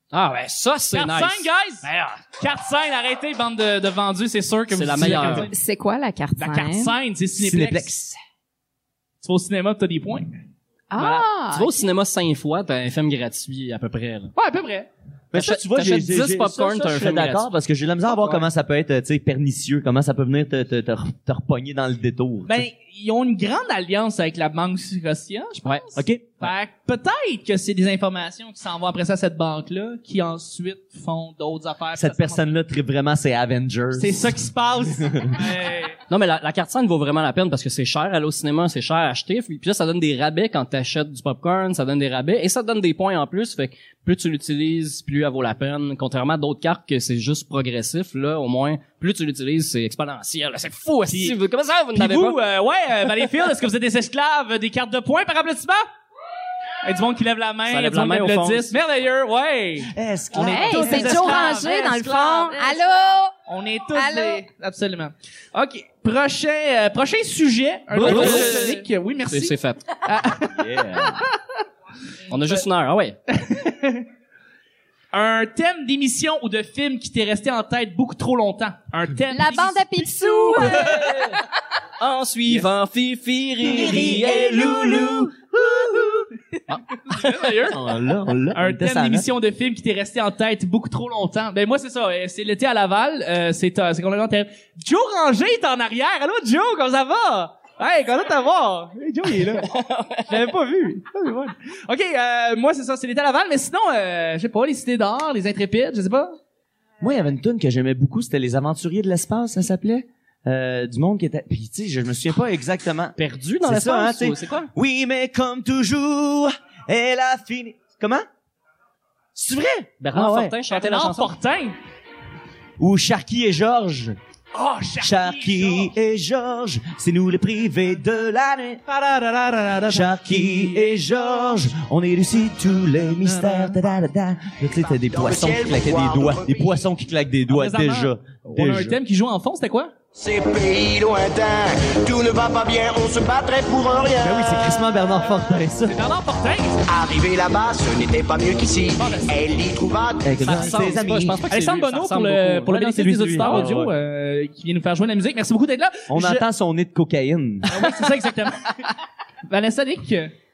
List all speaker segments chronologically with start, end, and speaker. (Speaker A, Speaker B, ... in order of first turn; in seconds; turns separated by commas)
Speaker A: 0.1-2.2, Speaker B: 0.9-5.5, Speaker A: 4.7-5.5, Speaker C: 5.5-6.9, Speaker B: 6.4-7.9, Speaker D: 7.4-8.2, Speaker B: 9.2-10.4, Speaker C: 10.9-11.8, Speaker A: 11.4-14.3, Speaker B: 14.3-14.9, Speaker D: 15.3-22.7, Speaker A: 15.3-17.5, Speaker B: 18.2-18.4, Speaker B: 22.5-32.4, Speaker D: 25.9-26.3, Speaker D: 32.0-35.5, Speaker B: 34.0-36.0, Speaker A: 36.1-52.4, Speaker B: 51.1-51.4, Speaker B: 51.9-55.8, Speaker B: 56.8-62.9, Speaker A: 57.7-58.7, Speaker D: 59.9-61.6, Speaker C: 60.4-63.3, Speaker B: 63.5-71.2, Speaker C: 63.9-64.4, Speaker A: 67.9-70.0, Speaker D: 68.0-68.7, Speaker D: 70.4-71.2, Speaker A: 72.3-73.2, Speaker B: 73.3-74.1, Speaker B: 75.1-81.2, Speaker C: 79.3-80.9, Speaker A: 80.8-81.3, Speaker A: 82.0-84.9, Speaker D: 83.6-86.3, Speaker B: 83.7-84.6, Speaker C: 84.0-85.2, Speaker B: 87.0-87.8, Speaker D: 87.7-89.3, Speaker B: 88.5-99.7, Speaker A: 99.6-100.5, Speaker B: 100.3-106.4, Speaker D: 107.0-118.3, Speaker A: 113.2-114.7, Speaker D: 119.3-120.5, Speaker A: 120.0-121.3, Speaker B: 120.7-121.8, Speaker D: 122.8-124.2, Speaker B: 124.5-125.9, Speaker D: 125.0-128.8, Speaker B: 128.9-131.0, Speaker D: 129.9-139.0, Speaker B: 133.2-133.8, Speaker E: 135.1-136.7, Speaker B: 137.5-139.9, Speaker E: 140.1-144.7, Speaker D: 144.2-146.0, Speaker B: 145.9-146.8, Speaker E: 146.9-150.7, Speaker B: 149.0-149.4, Speaker D: 150.2-151.4, Speaker A: 150.4-153.8, Speaker B: 151.5-156.4, Speaker D: 152.7-153.9, Speaker D: 156.1-157.8, Speaker B: 157.7-158.9, Speaker B: 159.5-160.3